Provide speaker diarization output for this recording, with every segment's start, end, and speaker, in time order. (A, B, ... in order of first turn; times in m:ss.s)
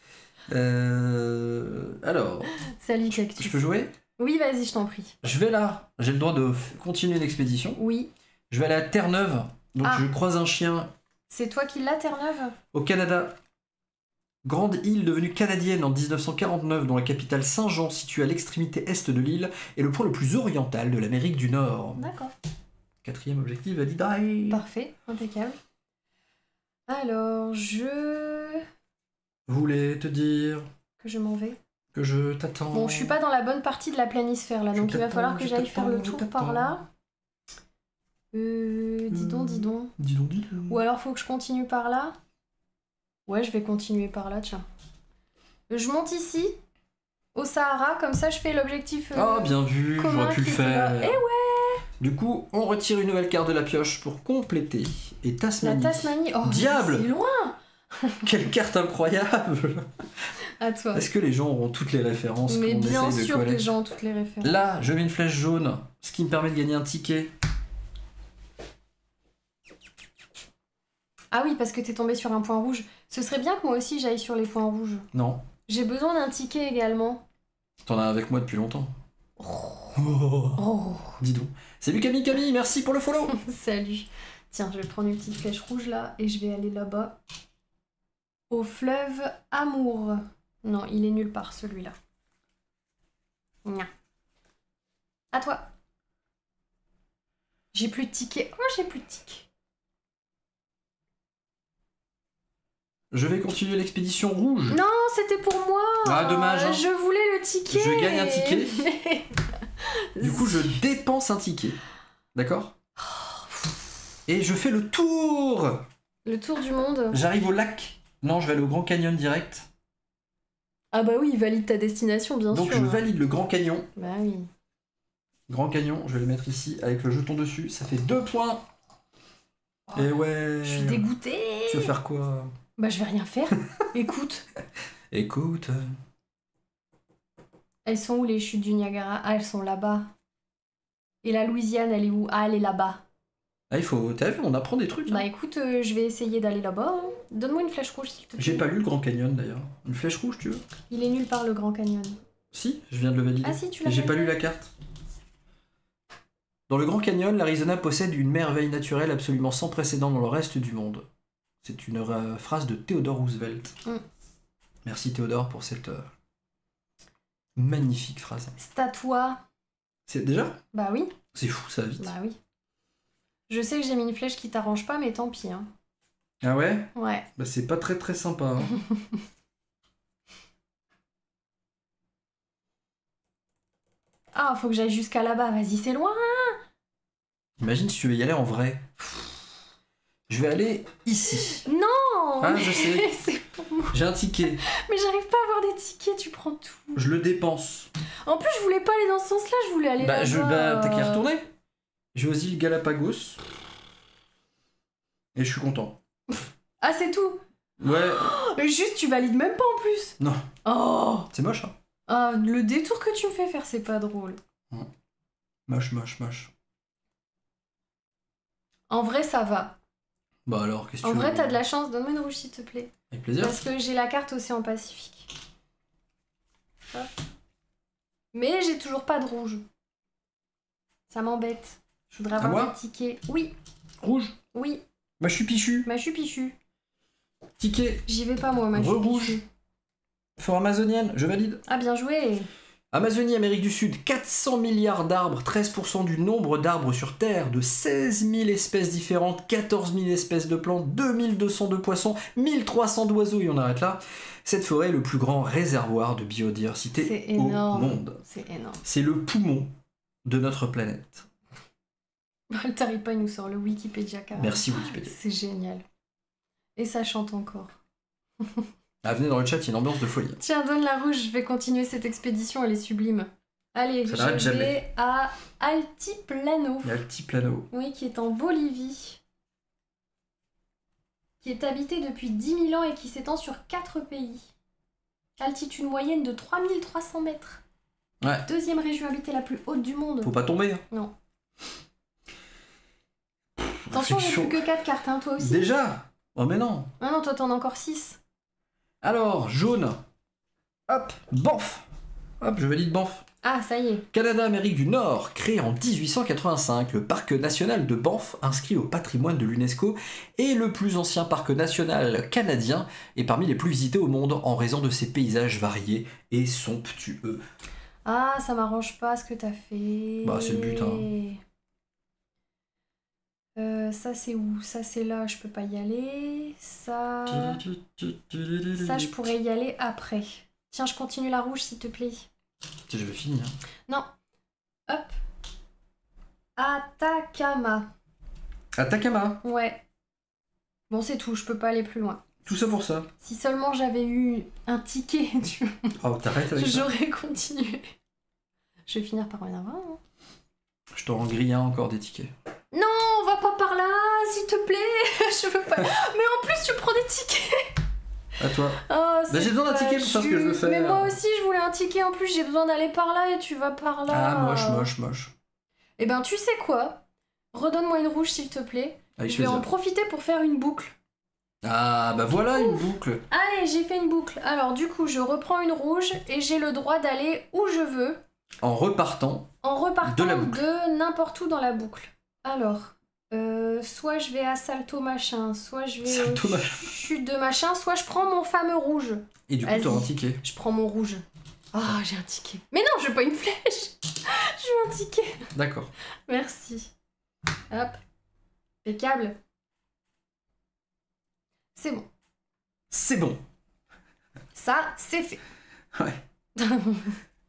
0:00.5-0:02.5 A
0:02.7-0:05.2 B
0:03.1-0:03.9 A
0:05.2-0:07.8 A
0:07.8-0:08.1 B
0:08.5-0:10.9 A
0:11.3-0:12.6 B
0:12.7-0:13.4 A
0:14.4-0:22.1 A
0:22.0-0:22.3 B
0:23.0-0:24.6 A
0:24.5-0:25.6 B
0:26.9-0:28.6 B
0:29.5-0:30.7 A
0:31.0-0:31.6 B
0:31.9-0:33.2 A
0:32.7-0:36.8 B
0:34.7-0:36.8 A
0:38.3-0:39.9 B
0:39.1-0:40.8 A
0:40.7-0:42.1 B
0:43.3-0:44.6 B
0:45.7-0:46.6 B
0:47.3-0:51.8 B
0:49.1-0:51.2 A
0:52.0-0:57.1 A
0:55.6-0:58.2 B
0:58.2-1:00.3 A
1:00.4-1:01.0 B
1:00.9-1:03.7 A
1:02.5-1:04.5 B
1:04.4-1:07.3 A
1:11.3-1:15.1 B
1:15.1-1:15.4 A
1:15.7-1:17.2 B
1:17.8-1:18.9 A
1:19.4-1:21.2 B
1:19.9-1:20.6 A
1:21.2-1:23.4 A
1:23.3-1:27.2 B
1:28.5-1:31.9 B
1:35.3-1:35.7 B
1:37.7-1:39.5 B
1:43.1-1:44.8 A
1:44.7-1:50.8 B
1:46.0-1:46.9 A
1:47.7-1:48.9 A
1:50.2-1:51.8 A
1:52.3-1:52.7 A
1:53.0-1:53.8 B
1:54.3-1:55.9 A
1:56.2-1:57.2 B
1:57.1-1:59.7 A
2:00.9-2:03.0 B
2:02.5-2:03.9 A
2:04.0-2:04.5 B
2:05.5-2:08.6 A
2:09.9-2:11.1 A
2:10.6-2:11.9 B
2:11.7-2:12.5 A
2:12.8-2:14.4 B
2:15.1-2:15.9 A
2:17.8-2:20.1 B
2:21.2-2:23.0 B
2:23.7-2:25.2 A
2:25.1-2:28.7 B
2:28.4-2:30.6 A
2:30.9-2:32.2 B
2:32.5-2:34.7 A
2:33.4-2:34.4 B
2:36.7-2:41.0 A
2:41.6-2:43.8 A
2:44.8-2:46.0 A
2:47.6-2:48.5 A
2:48.6-2:49.4 B
2:50.1-2:50.6 A
2:50.7-2:51.1 B
2:51.3-2:52.1 A
2:52.0-2:52.4 B
2:53.5-2:55.7 B
2:56.4-2:58.8 A
2:56.9-2:57.3 B
2:58.7-2:59.0 B
3:04.3-3:06.6 B
3:07.6-3:09.3 A
3:10.3-3:11.6 A
3:11.5-3:13.9 B
3:12.4-3:13.1 A
3:13.9-3:14.6 A
3:14.6-3:17.0 B
3:16.9-3:17.9 A
3:18.2-3:21.2 B
3:20.0-3:21.5 A
3:22.1-3:23.4 A
3:25.3-3:26.0 A
3:26.8-3:31.3 B
3:27.8-3:28.4 A
3:30.2-3:30.5 A
3:31.3-3:31.7 A
3:32.1-3:34.4 B
3:35.7-3:36.5 A
3:38.9-3:39.8 B
3:40.4-3:41.6 A
3:41.0-3:45.3 B
3:43.1-3:43.6 A
3:48.3-3:49.6 B
3:51.1-3:53.5 B
3:52.4-3:52.7 A
3:54.0-3:54.4 A
3:54.5-3:54.8 B
3:55.2-3:55.9 A
3:55.8-3:56.6 B
3:57.6-3:58.0 A
3:58.1-3:59.4 B
3:58.7-3:59.4 A
4:00.4-4:01.6 A
4:01.7-4:02.5 B
4:02.9-4:18.2 A
4:17.0-4:18.8 B
4:18.8-4:19.7 A
4:20.2-4:21.3 A
4:22.5-4:25.8 B
4:24.3-4:25.1 A
4:26.8-4:27.7 B
4:28.4-4:28.7 B
4:29.0-4:30.4 A
4:30.4-4:37.0 B
4:34.0-4:34.8 A
4:36.8-4:37.7 A
4:37.7-4:39.2 B
4:41.4-4:44.5 B
4:45.4-4:47.6 B
4:48.2-4:48.4 A
4:48.4-4:50.3 B
4:50.2-4:50.8 A
4:53.6-4:54.6 A
4:53.9-4:55.7 B
4:55.4-4:56.9 A
4:57.0-4:58.2 B
4:59.0-5:00.0 A
5:00.9-5:01.9 A
5:02.4-5:03.2 A
5:03.4-5:04.1 B
5:04.1-5:17.4 A
5:18.0-5:21.4 B
5:20.2-5:21.1 A
5:23.6-5:27.6 B
5:27.3-5:29.3 A
5:28.8-5:32.3 B
5:32.9-5:33.5 A
5:34.9-5:35.1 B
5:36.6-5:37.9 B
5:38.8-5:39.4 A
5:39.4-5:39.8 B
5:40.9-5:45.9 B
5:42.4-5:43.1 A
5:46.0-5:46.9 A
5:46.5-5:47.9 B
5:48.9-5:50.0 B
5:50.9-5:52.3 A
5:52.7-5:57.7 B
5:58.4-6:01.1 A
5:58.8-6:04.9 B
6:04.1-6:05.3 A
6:06.0-6:11.0 B
6:09.2-6:09.7 A
6:11.6-6:13.2 A
6:12.5-6:18.2 B
6:18.6-6:19.5 A
6:19.6-6:35.5 B
6:20.0-6:20.6 A
6:26.0-6:26.9 A
6:29.5-6:30.4 A
6:35.5-6:35.9 A
6:36.3-6:36.9 B
6:37.7-6:38.0 B
6:38.8-6:39.4 B
6:41.7-6:42.1 B
6:42.9-6:43.4 A
6:44.5-6:45.4 B
6:45.9-6:46.2 A
6:46.6-6:47.2 B